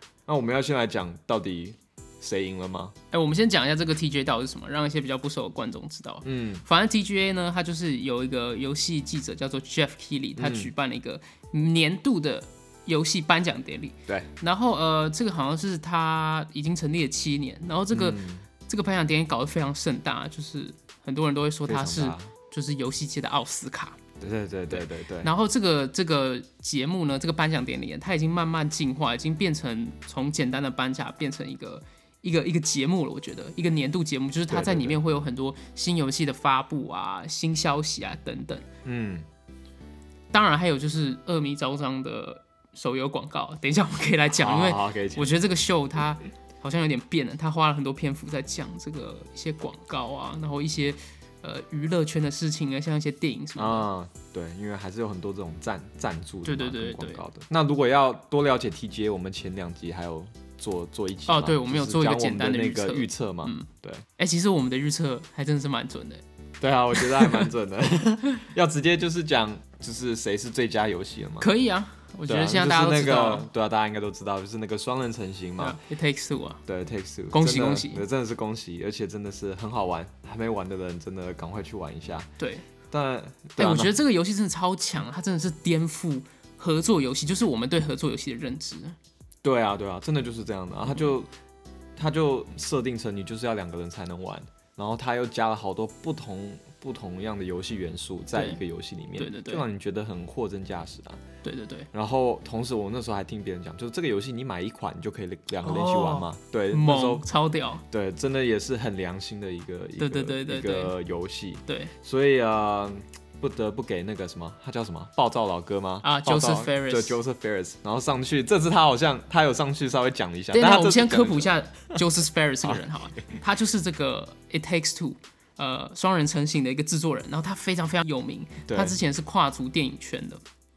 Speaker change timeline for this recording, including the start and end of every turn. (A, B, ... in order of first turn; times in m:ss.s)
0:00.3-0:03.0 A
0:03.1-0:24.0 B
0:06.2-0:06.6 A
0:10.4-0:10.7 A
0:17.9-0:18.4 A
0:21.7-0:22.3 A
0:24.2-0:25.3 A
0:24.7-0:38.7 B
0:34.5-0:35.0 A
0:38.8-0:39.3 A
0:40.3-0:53.9 B
0:44.3-0:45.3 A
0:53.6-1:04.0 A
0:56.4-0:57.2 B
1:01.3-1:06.2 B
1:06.6-1:11.5 A
1:06.9-1:07.5 B
1:11.4-1:13.5 B
1:12.3-1:15.8 A
1:15.6-1:16.6 B
1:16.7-1:22.3 A
1:17.3-1:18.0 B
1:22.4-1:22.6 B
1:22.9-1:24.0 A
1:23.6-1:29.0 B
1:29.4-1:31.3 A
1:32.0-1:41.2 A
1:38.3-1:38.6 B
1:39.2-1:39.6 B
1:41.4-1:41.9 B
1:41.9-1:47.2 A
1:45.6-1:47.8 B
1:47.9-2:02.0 A
1:50.0-1:50.9 B
1:51.7-1:51.9 B
1:56.0-1:57.2 B
2:00.5-2:10.4 B
2:02.6-2:03.3 A
2:08.7-2:09.0 A